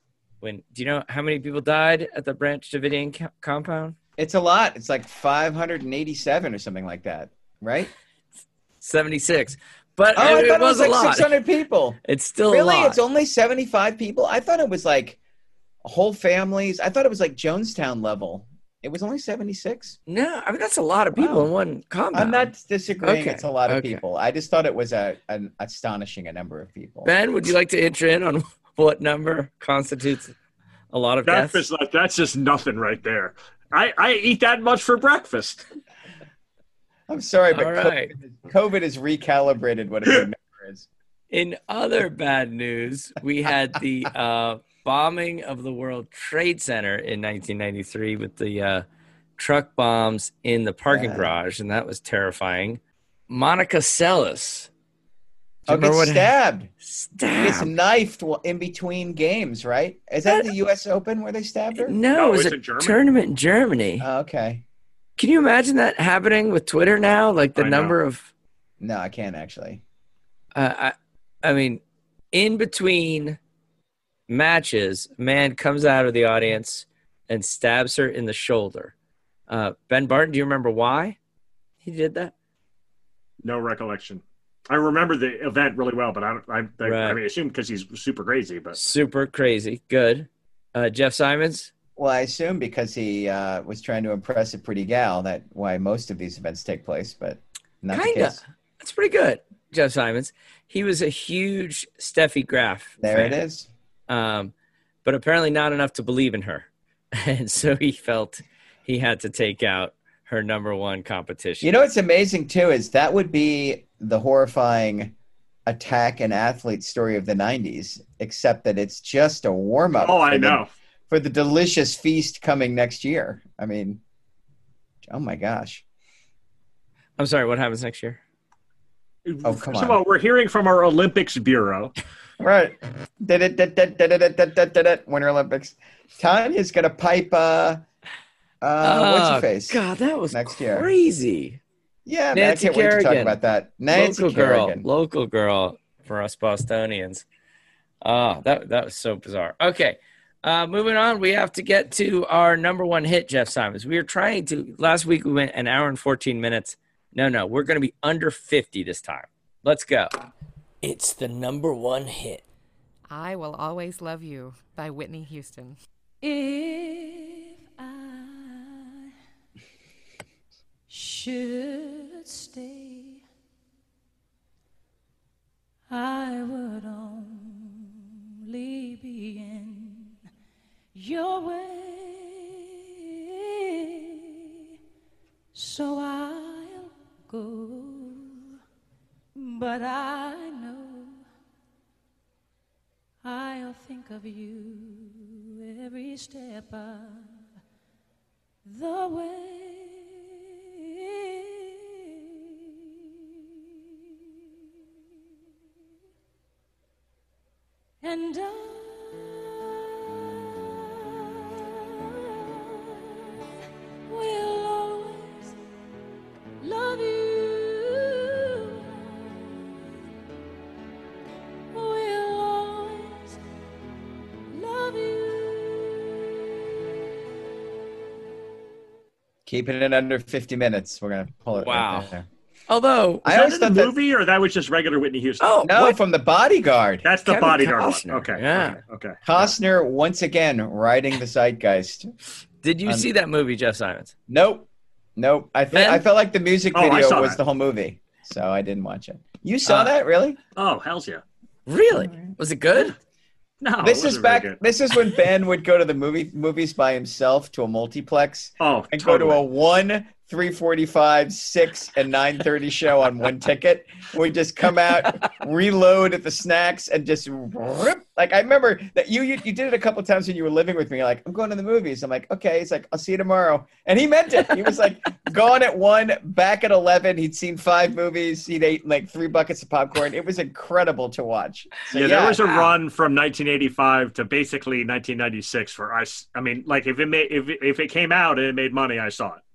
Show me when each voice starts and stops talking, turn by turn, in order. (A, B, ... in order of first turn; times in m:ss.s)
0:00.4-0:04.0 A
0:04.2-0:07.9 B
0:08.8-0:11.3 A
0:10.1-0:15.2 B
0:12.0-0:13.0 A
0:15.8-0:20.0 B
0:20.1-0:22.5 A
0:21.2-0:21.5 B
0:22.1-0:27.1 B
0:23.0-0:24.0 A
0:27.0-0:30.4 A
0:30.9-0:31.6 A
0:31.2-0:35.6 C
0:37.1-0:40.9 B
0:37.5-0:38.1 A
0:41.3-0:48.8 A
0:49.4-0:54.7 A
0:50.9-0:51.4 B
0:55.7-0:56.7 B
0:55.7-0:56.3 A
0:56.8-0:57.7 A
0:57.3-1:02.0 B
1:00.2-1:00.5 A
1:01.8-1:04.0 A
1:02.1-1:03.0 C
1:04.0-1:04.6 B
1:05.2-1:08.3 A
1:07.5-1:08.0 C
1:08.8-1:09.8 B
1:10.5-1:11.8 A
1:12.3-1:13.4 A
1:14.3-1:18.9 A
1:19.5-1:21.2 A
1:21.8-1:22.3 A
1:23.4-1:28.8 C
1:26.8-1:27.2 A
1:28.7-1:31.7 A
1:32.0-1:38.4 B
1:37.9-1:43.4 A
1:43.0-1:43.7 B
1:44.1-1:44.5 A
1:45.0-1:51.7 A
1:51.6-1:55.1 B
1:55.7-2:04.0 B
2:00.0-2:00.7 C
2:05.0-2:05.8 B
2:07.2-2:08.2 A
2:09.2-2:11.9 C
2:09.4-2:10.0 B
2:12.4-2:17.8 B
2:18.6-2:20.9 B
2:18.8-2:21.6 A
2:22.0-2:24.9 B
2:22.3-2:23.4 A
2:23.9-2:27.2 A
2:28.0-2:40.1 A
2:40.8-2:42.4 A
2:43.1-2:45.8 D
2:46.2-2:49.0 E
2:50.9-2:53.2 E
2:55.9-2:57.9 E
2:58.5-3:00.1 E
3:00.9-3:02.8 E
3:03.8-3:04.4 E
3:05.5-3:08.4 E
3:09.4-3:11.2 E
3:13.2-3:17.4 E
3:18.6-3:20.2 E
3:21.0-3:21.8 E
3:28.0-3:31.8 E
3:32.5-3:32.9 E
3:34.1-3:35.5 E
3:36.6-3:39.1 E
3:41.7-3:43.4 E
3:44.5-3:46.2 E
3:49.4-3:52.3 B
3:51.5-3:52.1 A
3:52.7-3:53.3 A
3:53.2-3:53.9 B
3:53.3-3:55.6 C
3:55.4-3:56.0 A
3:55.6-3:57.0 B
3:57.0-3:59.2 C
3:57.2-3:58.8 A
3:59.2-4:02.1 B
4:02.6-4:04.1 A
4:04.3-4:10.4 B
4:05.7-4:06.0 A
4:06.7-4:07.4 C
4:10.6-4:11.2 C
4:11.7-4:12.9 A
4:11.9-4:12.3 B
4:13.6-4:14.6 C
4:13.8-4:42.4 B
4:18.6-4:19.4 C
4:41.9-4:49.4 C